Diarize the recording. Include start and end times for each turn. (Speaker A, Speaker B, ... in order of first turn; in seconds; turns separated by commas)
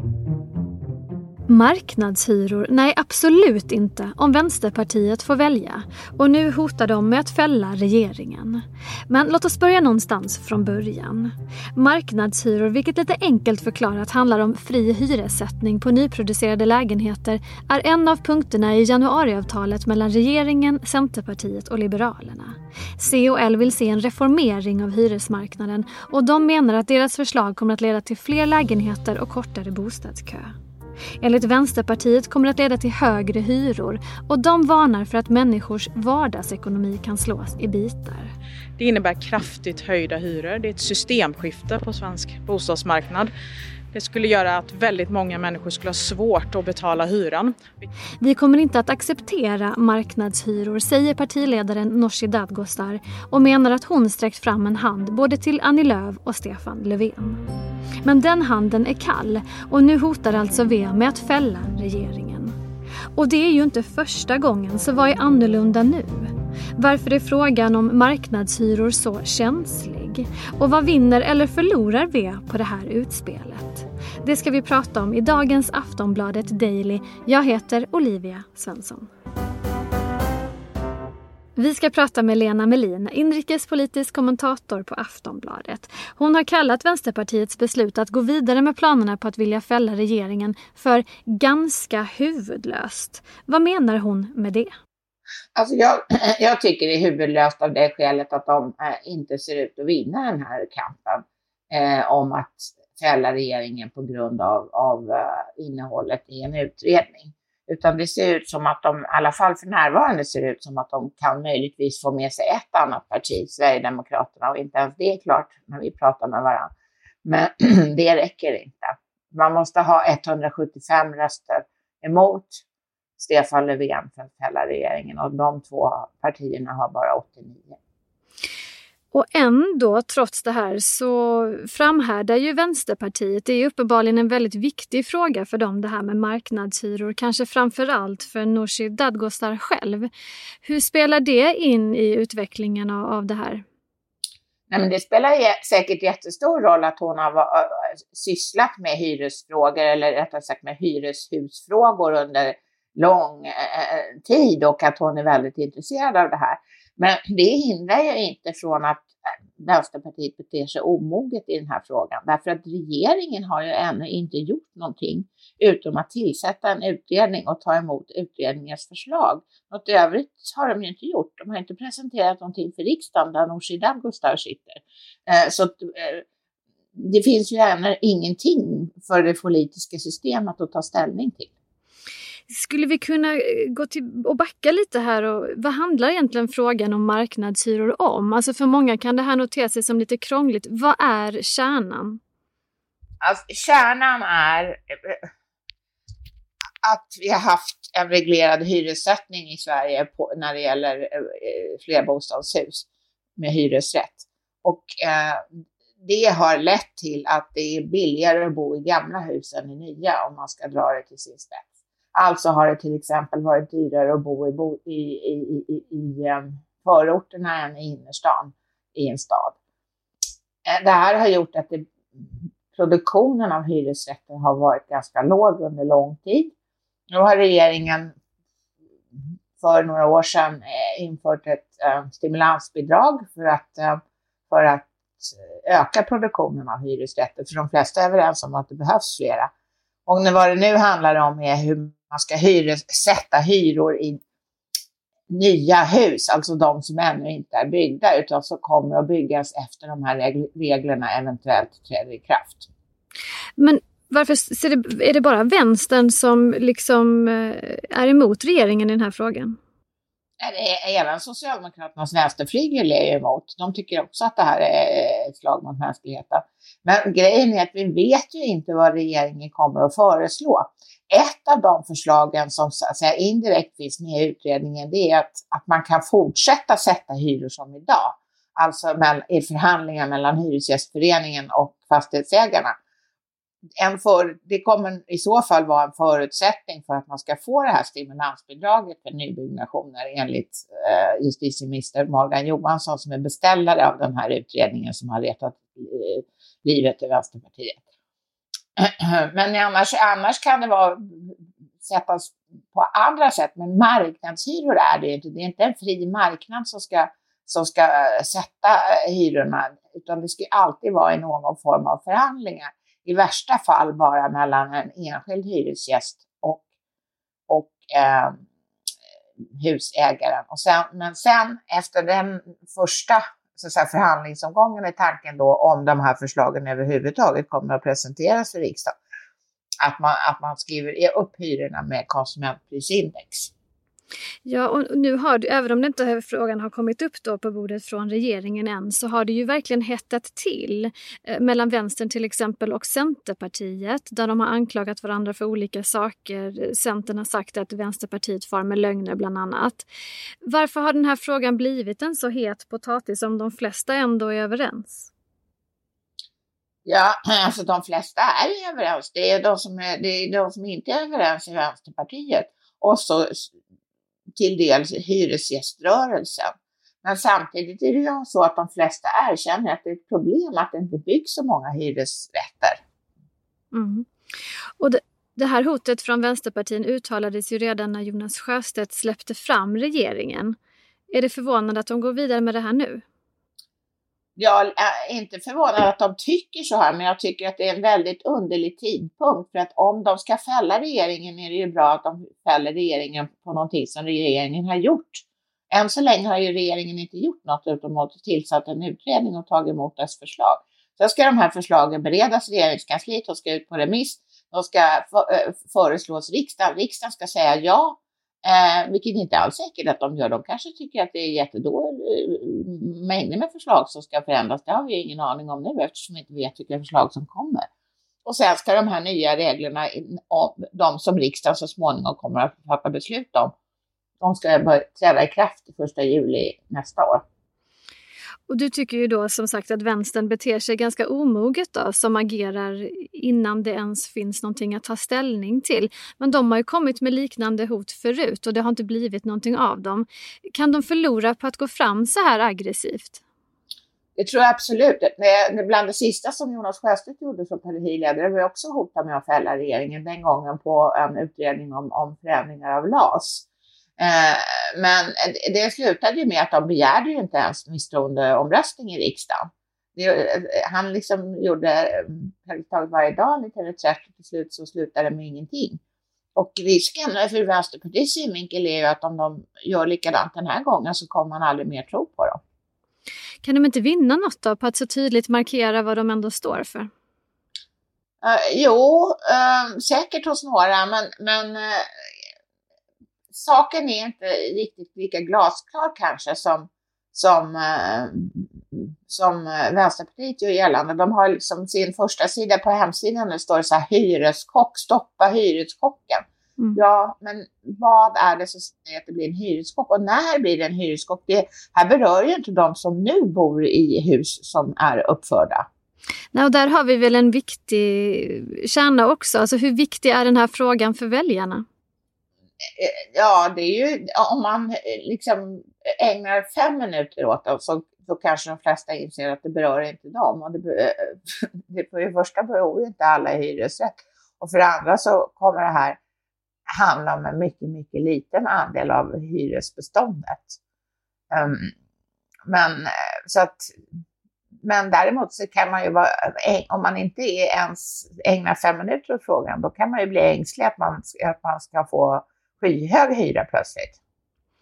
Speaker A: 1.5-30.5, Speaker A: 31.2-38.3, Speaker B: 38.8-43.3, Speaker B: 43.9-47.9, Speaker A: 48.2-57.4, Speaker A: 58.0-62.6, Speaker A: 63.1-79.1, Speaker A: 81.6-94.7, Speaker C: 95.5-116.7, Speaker C: 117.2-122.6, Speaker C: 123.2-127.8, Speaker A: 129.1-140.1, Speaker A: 140.6-143.6, Speaker C: 144.7-176.2, Speaker C: 176.9-181.5, Speaker A: 182.5-192.2, Speaker C: 193.2-195.2, Speaker C: 196.8-202.9, Speaker C: 203.4-205.4, Speaker C: 206.0-219.6, Speaker C: 220.7-226.5, Speaker C: 227.1-228.1, Speaker C: 229.6-239.5, Speaker C: 240.1-244.2, Speaker C: 245.3-252.7, Speaker A: 253.6-259.6, Speaker C: 260.4-282.8, Speaker C: 283.8-297.8, Speaker C: 298.8-316.6, Speaker C: 317.5-318.4, Speaker C: 319.5-328.9, Speaker C: 329.8-333.5, Speaker A: 334.4-349.9, Speaker A: 350.4-355.1, Speaker C: 356.9-363.5, Speaker C: 364.4-366.5, Speaker C: 367.0-372.8, Speaker A: 373.7-374.1, Speaker A: 374.8-380.6, Speaker A: 381.1-383.1, Speaker C: 384.4-417.7, Speaker C: 418.2-423.5, Speaker C: 424.2-427.2, Speaker A: 428.5-443.2, Speaker C: 444.2-453.5, Speaker C: 454.0-465.8, Speaker C: 466.4-472.4, Speaker A: 473.4-476.9, Speaker C: 478.2-482.1, Speaker C: 483.3-496.2, Speaker C: 496.8-505.7, Speaker A: 506.3-511.6, Speaker C: 512.8-526.0, Speaker C: 526.8-530.6, Speaker C: 531.3-531.7, Speaker C: 532.5-533.8, Speaker C: 534.6-544.0